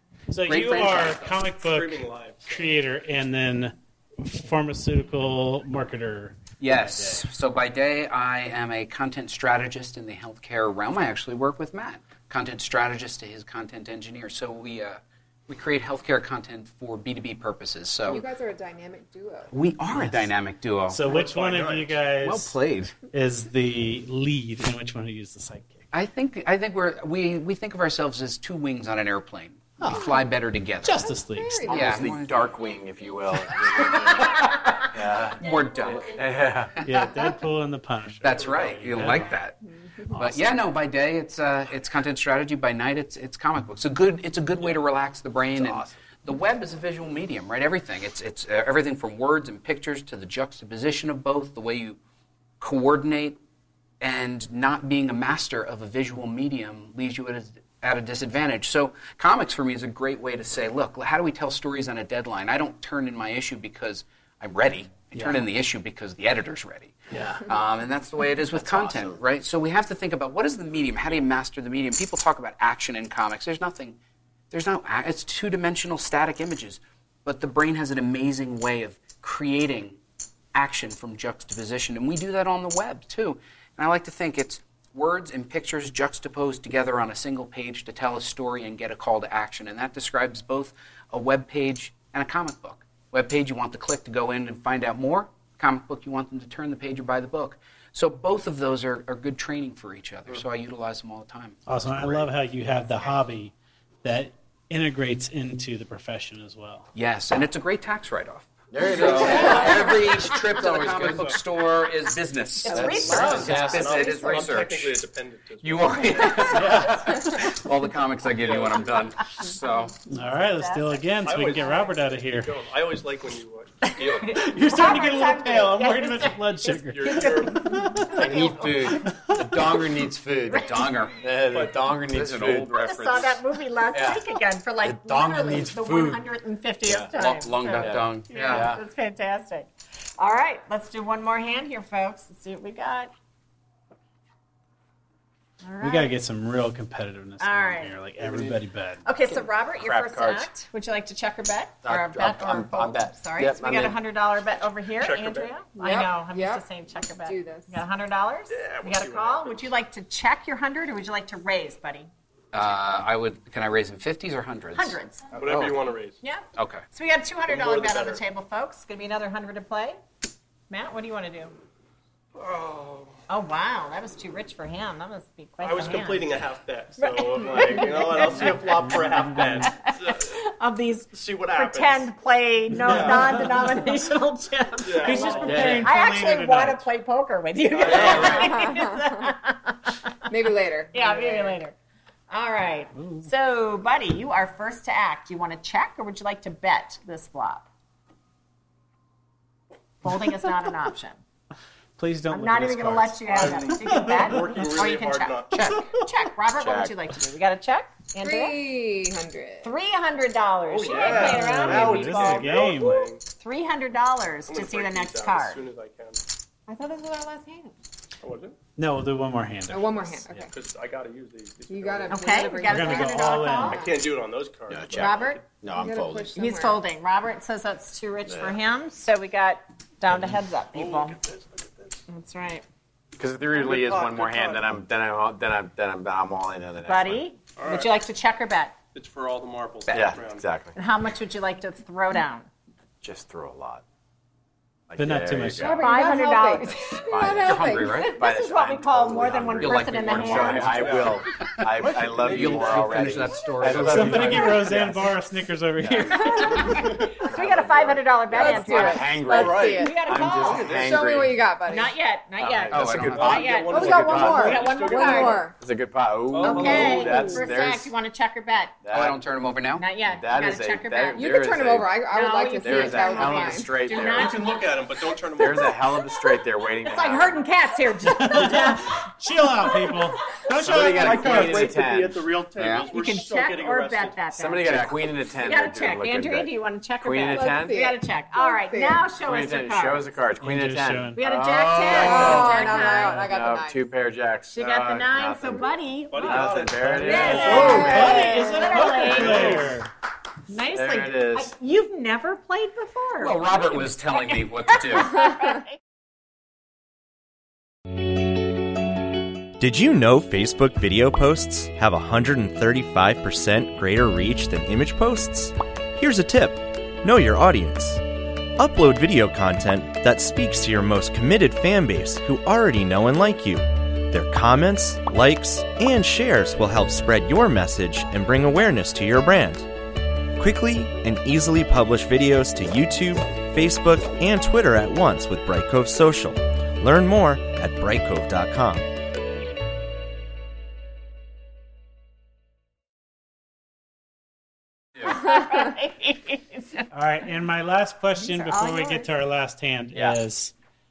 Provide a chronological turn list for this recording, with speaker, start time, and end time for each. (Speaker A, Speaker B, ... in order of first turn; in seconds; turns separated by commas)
Speaker A: 0.3-7.3, Speaker B: 0.5-1.4, Speaker C: 1.2-2.8, Speaker B: 6.6-18.3, Speaker D: 18.1-19.6, Speaker B: 19.5-21.0, Speaker A: 20.0-20.3, Speaker A: 20.9-25.8, Speaker C: 21.1-21.9, Speaker B: 22.2-22.9, Speaker B: 25.9-31.1, Speaker A: 29.8-30.2, Speaker A: 30.8-31.7, Speaker D: 31.1-32.0, Speaker E: 31.7-37.3, Speaker B: 31.7-32.5, Speaker B: 35.3-37.1, Speaker A: 36.8-39.4, Speaker B: 38.2-39.6, Speaker B: 40.1-52.0, Speaker E: 45.5-46.0, Speaker B: 52.6-53.4, Speaker B: 54.0-74.0, Speaker A: 65.1-65.4, Speaker E: 67.1-67.5, Speaker E: 68.5-69.2, Speaker B: 74.5-80.0, Speaker B: 80.5-102.3, Speaker A: 101.7-106.9, Speaker B: 107.0-115.0, Speaker E: 108.7-111.4, Speaker F: 109.1-109.9, Speaker C: 110.9-111.4, Speaker F: 112.6-114.4, Speaker E: 112.7-114.2, Speaker C: 113.1-116.5, Speaker B: 115.6-119.9, Speaker A: 116.5-117.3, Speaker C: 118.4-119.0, Speaker A: 120.1-122.5, Speaker F: 120.5-121.1, Speaker C: 121.2-124.4, Speaker F: 123.8-129.0, Speaker A: 124.3-128.3, Speaker C: 126.9-128.6, Speaker E: 128.2-132.8, Speaker A: 129.1-129.6, Speaker F: 130.5-130.8, Speaker B: 130.8-131.2, Speaker B: 132.1-133.4, Speaker F: 132.8-143.1, Speaker E: 133.9-134.3, Speaker E: 134.8-136.2, Speaker E: 136.8-137.1, Speaker B: 137.1-138.7, Speaker E: 137.7-138.8, Speaker F: 145.6-146.1, Speaker A: 145.8-149.1, Speaker F: 147.4-147.9, Speaker E: 148.2-148.5, Speaker F: 149.1-162.1, Speaker E: 149.3-150.5, Speaker E: 151.8-154.0, Speaker C: 155.0-155.5, Speaker D: 155.8-156.7, Speaker D: 157.2-157.8, Speaker C: 158.5-159.7, Speaker B: 162.5-165.8, Speaker F: 164.7-165.3, Speaker C: 165.3-166.2, Speaker F: 166.2-170.0, Speaker B: 166.6-166.8, Speaker C: 167.5-168.2, Speaker F: 170.7-171.6, Speaker C: 172.3-173.2, Speaker F: 173.3-176.3, Speaker C: 175.6-180.4, Speaker F: 177.0-178.7, Speaker A: 178.2-179.7, Speaker F: 179.5-190.2, Speaker C: 181.1-182.1, Speaker A: 182.7-183.8, Speaker C: 182.8-183.5, Speaker C: 184.8-185.8, Speaker A: 185.0-186.9, Speaker E: 185.4-185.9, Speaker C: 187.7-188.6, Speaker D: 187.9-189.3, Speaker D: 190.3-191.6, Speaker F: 190.9-191.8, Speaker F: 192.3-197.7, Speaker A: 192.9-193.3, Speaker F: 200.0-201.2, Speaker A: 202.0-204.5, Speaker F: 202.3-208.6, Speaker C: 203.3-205.8, Speaker E: 206.5-206.9, Speaker D: 208.2-209.7, Speaker F: 209.6-212.6, Speaker C: 210.7-213.2, Speaker D: 210.9-211.4, Speaker A: 211.1-213.1, Speaker F: 213.3-215.6, Speaker C: 214.5-216.2, Speaker F: 216.7-217.7, Speaker D: 216.9-217.5, Speaker C: 218.2-218.6, Speaker A: 218.8-220.4, Speaker D: 219.7-220.5, Speaker C: 220.5-222.6, Speaker D: 221.7-224.1, Speaker F: 222.1-223.8, Speaker A: 222.6-223.8, Speaker C: 223.7-225.4, Speaker E: 224.7-226.4, Speaker F: 224.9-225.4, Speaker D: 225.7-226.8, Speaker F: 226.4-231.2, Speaker E: 228.3-228.6, Speaker C: 230.7-232.0, Speaker F: 232.1-232.7, Speaker E: 233.2-237.3, Speaker C: 233.5-234.7, Speaker F: 236.9-238.8, Speaker C: 237.6-237.9, Speaker C: 238.9-240.5, Speaker E: 239.9-240.8, Speaker F: 240.8-242.5, Speaker E: 243.0-243.8, Speaker E: 244.9-255.0, Speaker A: 245.0-245.8, Speaker D: 245.6-248.1, Speaker F: 245.6-247.1, Speaker B: 247.4-248.2, Speaker F: 247.8-251.0, Speaker B: 249.6-255.1, Speaker C: 250.7-251.2, Speaker C: 252.2-252.8, Speaker A: 253.8-256.9, Speaker E: 255.8-256.1, Speaker F: 256.2-260.7, Speaker D: 256.3-256.8, Speaker E: 257.1-261.5, Speaker D: 258.3-262.0, Speaker C: 259.3-261.1, Speaker F: 261.7-265.5, Speaker E: 262.4-264.6, Speaker B: 262.7-264.4, Speaker C: 262.8-265.5, Speaker D: 263.7-265.6, Speaker E: 265.6-267.9, Speaker C: 266.3-267.5, Speaker F: 266.4-268.8, Speaker D: 266.6-267.5, Speaker E: 268.8-269.3, Speaker B: 268.9-269.9, Speaker F: 269.8-271.2, Speaker E: 270.0-272.0, Speaker D: 271.1-274.2, Speaker F: 272.1-274.7, Speaker E: 272.6-274.5, Speaker C: 274.0-275.9, Speaker E: 275.3-277.4, Speaker F: 276.8-279.0, Speaker A: 278.1-281.8, Speaker F: 279.7-280.0, Speaker E: 280.6-282.2, Speaker C: 280.7-284.2, Speaker B: 282.6-282.9, Speaker F: 282.9-290.1, Speaker E: 284.3-287.8, Speaker D: 287.3-289.1, Speaker E: 289.2-299.8, Speaker A: 290.4-291.2, Speaker F: 291.1-293.2, Speaker D: 291.9-293.9, Speaker F: 294.5-299.6, Speaker C: 296.1-297.9, Speaker A: 296.7-299.9, Speaker D: 297.3-299.0, Speaker F: 300.5-305.7, Speaker E: 300.7-301.5, Speaker B: 303.2-305.4, Speaker G: 309.6-318.0, Speaker G: 318.6-329.7, Speaker G: 330.4-338.9, Speaker F: 345.0-346.9, Speaker A: 346.9-350.5, Speaker F: 348.2-349.1, Speaker E: 349.9-350.2